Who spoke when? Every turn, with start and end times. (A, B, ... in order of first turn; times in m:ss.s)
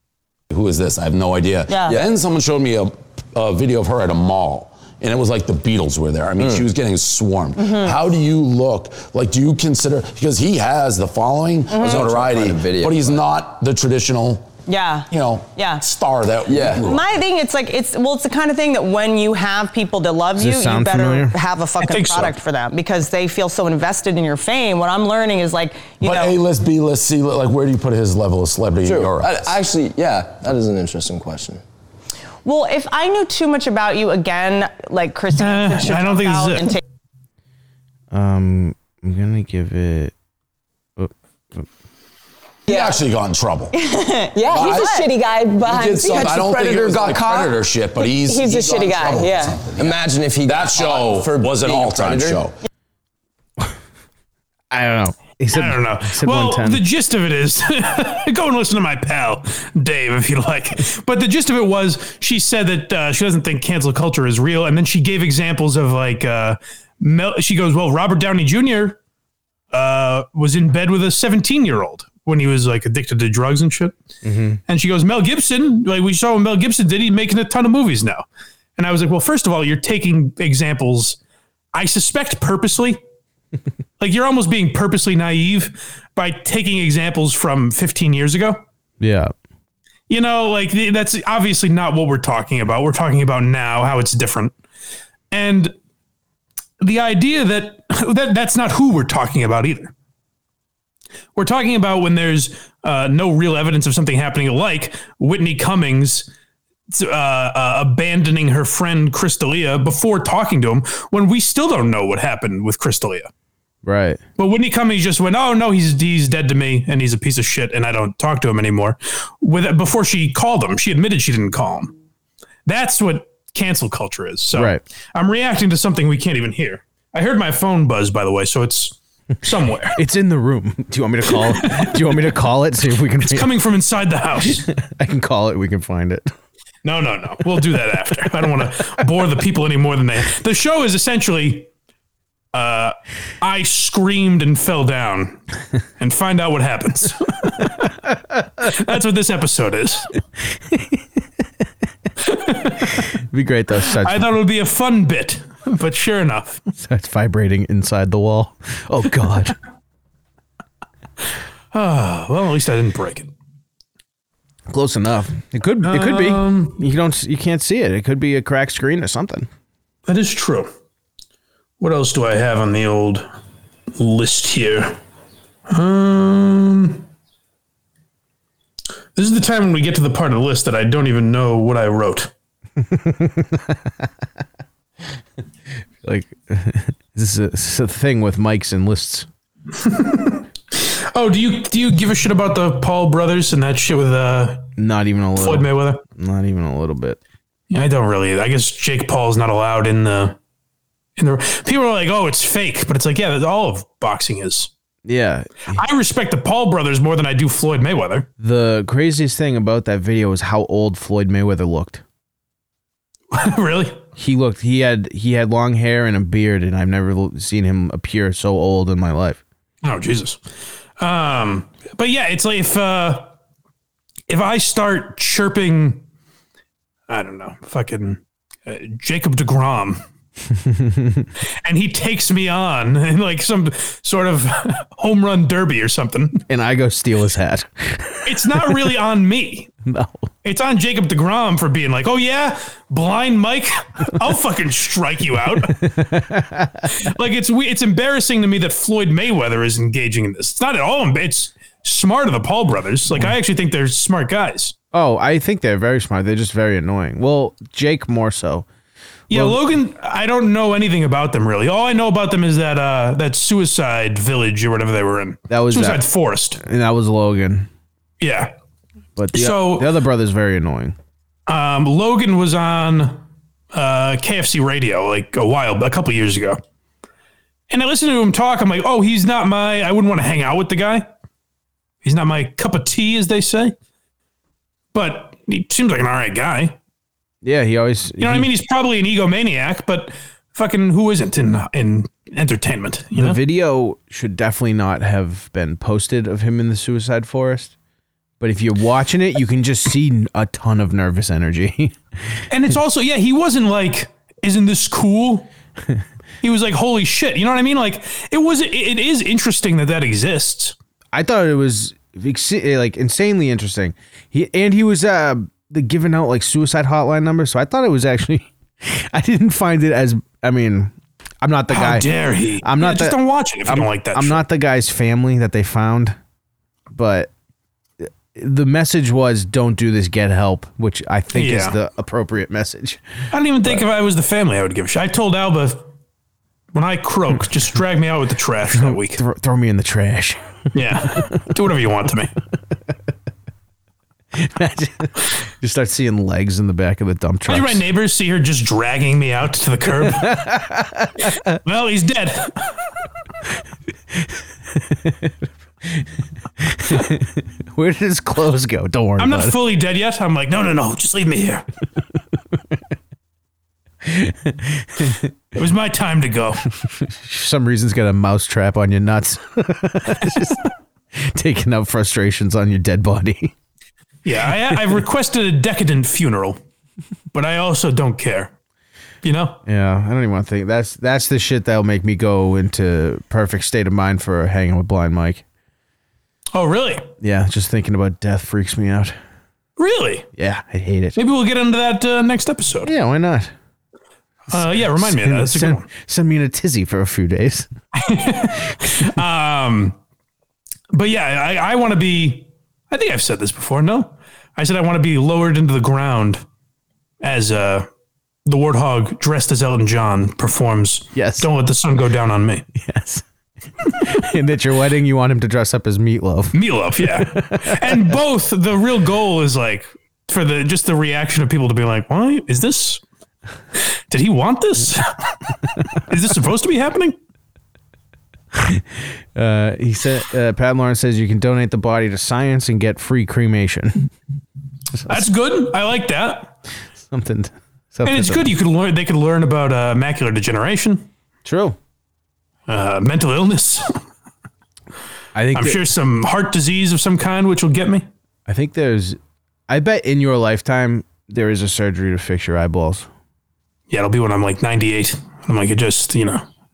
0:00.5-0:14.5 A
0:01.7-0:02.0 B
0:06.4-0:06.7 C
0:07.6-0:08.0 B
0:11.7-0:12.0 B
0:11.8-0:13.2 C
0:14.7-0:15.8 B
0:15.1-0:17.0 A
0:16.4-0:16.8 C
0:16.8-0:26.4 B
0:20.4-0:21.4 D
0:21.8-0:22.4 E
0:26.0-0:29.6 A
0:28.8-0:31.6 C
0:32.4-0:36.8 B
0:35.4-0:36.8 E
0:38.1-0:40.1 D
0:41.0-0:41.7 D
0:42.7-0:43.8 A
0:43.7-0:45.2 B
0:44.4-0:46.6 F
0:44.4-0:45.1 A
0:44.5-0:44.9 C
0:45.6-0:52.6 A
0:45.7-0:47.5 C
0:48.2-0:49.6 F
0:48.4-0:52.4 C
0:54.7-0:56.8 D
0:55.5-1:09.0 E
1:09.7-1:14.0 E
1:14.2-1:14.6 D
1:14.7-1:18.2 E
1:18.8-1:21.2 E
1:21.7-1:23.0 E
1:24.0-1:28.6 E
1:29.0-1:29.3 D
1:30.1-1:34.6 E
1:35.3-1:35.7 E
1:36.8-1:39.9 E
1:41.4-1:46.3 E
1:46.9-1:53.3 E
1:53.8-1:54.2 D
1:54.4-2:02.0 E
2:02.7-2:10.0 E
2:04.5-2:04.8 D
2:10.0-2:13.5 D
2:11.3-2:12.0 E
2:13.2-2:14.7 E
2:14.4-2:16.3 D
2:16.8-2:21.7 E
2:22.5-2:25.4 E
2:26.0-2:28.0 E
2:28.6-2:30.1 E
2:30.7-2:31.0 D
2:32.2-2:33.1 E
2:33.1-2:34.3 D
2:34.0-2:36.6 E
2:36.7-2:39.6 D
2:41.7-2:43.3 E
2:44.7-2:49.5 D
2:45.8-2:46.8 E
2:50.1-2:50.7 E
2:51.8-2:53.3 E
2:54.0-2:55.0 E
2:55.7-2:57.0 E
2:59.1-3:02.3 E
3:02.8-3:04.0 D
3:06.0-3:09.3 D
3:09.8-3:14.7 E
3:14.8-3:17.2 D
3:15.4-3:16.0 E
3:17.7-3:20.4 E
3:21.2-3:24.7 E
3:25.0-3:25.8 D
3:25.7-3:28.3 E
3:28.4-3:32.0 D
3:33.3-3:34.0 E
3:34.2-3:39.4 D
3:39.8-3:40.4 E
3:41.0-3:43.3 E
3:44.3-3:46.0 E
3:47.1-3:50.0 E
3:50.5-3:51.3 D
3:51.6-3:56.4 E
3:56.5-3:59.0 D
3:58.2-3:59.7 E
3:59.8-4:00.3 D
4:00.4-4:05.8 E
4:05.6-4:06.9 D
4:06.9-4:14.7 E
4:14.9-4:18.7 D
4:19.3-4:19.6 D
4:19.3-4:26.6 E
4:25.5-4:27.7 D
4:28.2-4:28.5 E
4:29.2-4:31.0 D
4:29.3-4:29.9 E
4:31.5-4:33.2 E
4:33.7-4:36.6 E
4:37.7-4:41.0 E
4:42.0-4:43.7 E
4:44.9-4:46.8 E
4:47.4-4:48.5 D
4:48.2-4:53.4 E
4:53.1-4:57.7 D
4:58.4-5:02.0 D
5:02.5-5:05.5 E
5:06.4-5:10.8 E
5:11.1-5:26.2 D
5:21.7-5:24.4 E
5:26.9-5:27.3 D
5:28.0-5:33.0 D
5:31.3-5:31.8 E
5:33.3-5:35.9 E
5:36.7-5:39.2 E
5:38.7-5:40.4 D
5:40.7-5:42.3 E
5:40.9-5:41.3 D
5:44.3-5:47.8 D
5:47.5-5:50.4 E
5:49.9-5:51.6 D
5:51.5-5:52.7 E
5:54.1-5:59.6 D
5:59.2-6:01.6 E
6:04.0-6:05.3 D
6:05.5-6:06.7 E
6:06.8-6:13.5 D
6:14.2-6:16.6 E
6:14.7-6:15.0 D
6:17.3-6:18.5 E
6:19.2-6:19.6 E
6:19.7-6:25.4 D
6:26.5-6:27.1 E
6:27.2-6:29.2 D
6:29.8-6:30.3 E
6:30.4-6:31.2 D
6:31.2-6:32.9 E
6:32.8-6:33.5 D
6:34.5-6:35.9 E
6:34.5-6:37.7 D
6:37.9-6:40.0 E
6:38.8-6:39.1 D
6:40.9-6:46.4 E
6:47.2-6:47.9 E
6:48.4-6:52.7 E
6:51.1-6:51.5 D
6:52.7-6:53.2 D
6:54.0-6:58.2 D
6:56.5-7:03.0 E
7:04.1-7:07.2 E
7:08.5-7:14.1 D
7:15.0-7:15.3 D
7:15.1-7:16.5 E
7:17.0-7:18.5 D
7:18.0-7:21.1 E
7:21.4-7:21.8 D
7:22.7-7:24.0 E
7:25.4-7:25.9 D
7:25.5-7:28.0 E
7:28.5-7:33.1 D
7:33.9-7:36.4 E